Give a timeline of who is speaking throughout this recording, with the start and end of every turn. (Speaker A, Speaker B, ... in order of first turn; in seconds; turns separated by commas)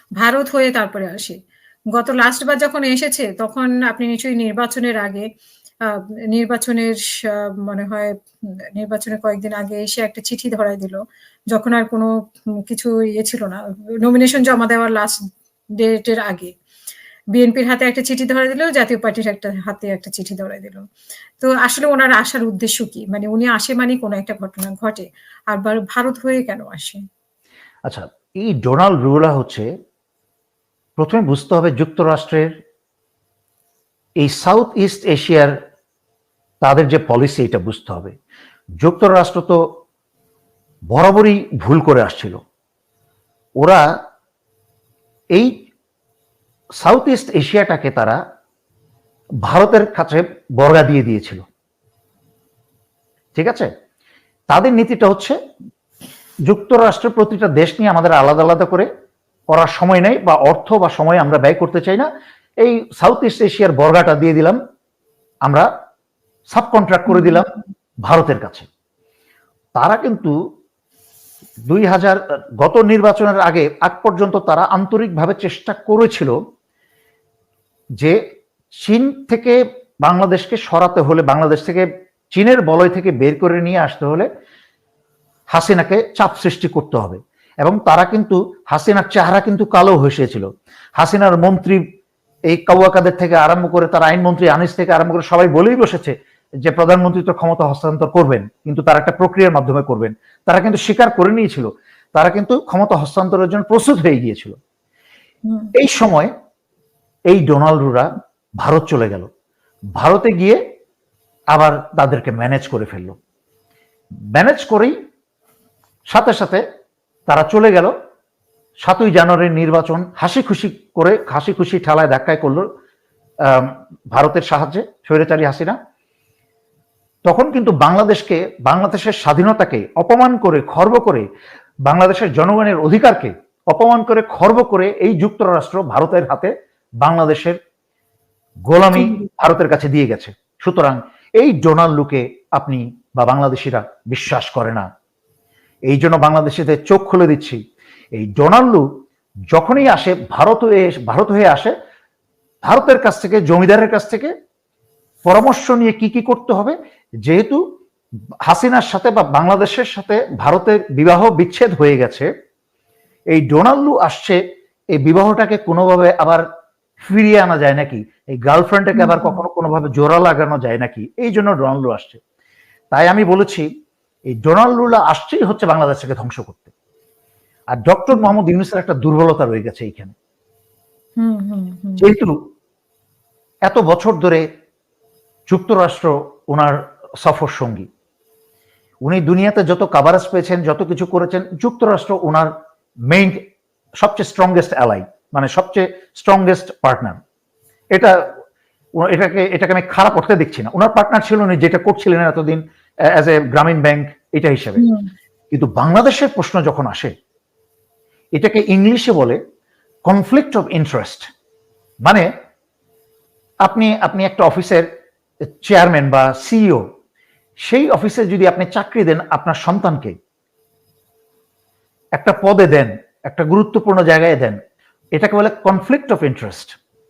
Speaker A: 0.2-1.4, Speaker A: 1.9-5.2, Speaker A: 5.8-8.1, Speaker A: 8.8-11.0, Speaker A: 11.5-12.1, Speaker A: 12.6-15.2, Speaker A: 15.8-16.5, Speaker A: 17.3-20.8, Speaker A: 21.4-27.0, Speaker B: 27.9-29.7, Speaker B: 31.0-32.5, Speaker B: 34.2-35.5, Speaker B: 36.6-38.1, Speaker B: 38.8-39.6, Speaker B: 40.9-42.4, Speaker B: 46.8-48.2, Speaker B: 49.4-51.4, Speaker B: 53.4-53.7, Speaker B: 54.5-55.4, Speaker B: 56.5-58.9, Speaker B: 59.5-62.1, Speaker B: 62.6-64.6, Speaker B: 66.5-67.4, Speaker A: 67.1-67.4, Speaker B: 68.0-68.7, Speaker B: 69.8-70.3, Speaker B: 71.7-76.3, Speaker B: 78.8-84.3, Speaker B: 85.5-90.5, Speaker B: 91.0-91.8, Speaker B: 92.5-96.1, Speaker B: 96.7-104.5, Speaker A: 105.5-105.7, Speaker B: 105.7-106.3, Speaker B: 107.3-108.1, Speaker B: 108.6-109.3, Speaker B: 110.0-110.6, Speaker B: 111.5-113.1, Speaker B: 114.3-114.9, Speaker B: 116.1-116.6, Speaker B: 117.3-117.9, Speaker B: 118.8-122.6, Speaker B: 123.5-125.8, Speaker B: 127.2-131.2, Speaker B: 131.8-136.5, Speaker B: 137.0-137.6, Speaker B: 138.7-144.8, Speaker A: 138.9-139.2, Speaker B: 145.9-147.6, Speaker B: 148.1-148.8, Speaker B: 149.5-151.7, Speaker B: 152.7-154.3, Speaker B: 155.2-156.7, Speaker B: 157.2-157.6, Speaker B: 158.4-162.3, Speaker B: 163.3-164.4, Speaker B: 164.9-166.4, Speaker B: 167.1-172.2, Speaker A: 168.9-169.4, Speaker B: 172.9-173.7, Speaker B: 174.3-176.7, Speaker B: 177.7-180.1, Speaker A: 181.2-182.1, Speaker B: 182.0-182.3, Speaker B: 183.7-184.4, Speaker B: 185.5-187.9, Speaker B: 189.0-192.5, Speaker B: 193.1-193.4, Speaker B: 194.0-197.2, Speaker B: 197.9-198.2, Speaker B: 199.0-204.8, Speaker A: 204.8-205.1, Speaker B: 205.5-207.1, Speaker B: 208.3-209.4, Speaker B: 210.1-211.2, Speaker B: 213.6-214.8, Speaker B: 215.4-216.8, Speaker B: 217.7-220.1, Speaker B: 222.2-224.6, Speaker B: 225.2-226.7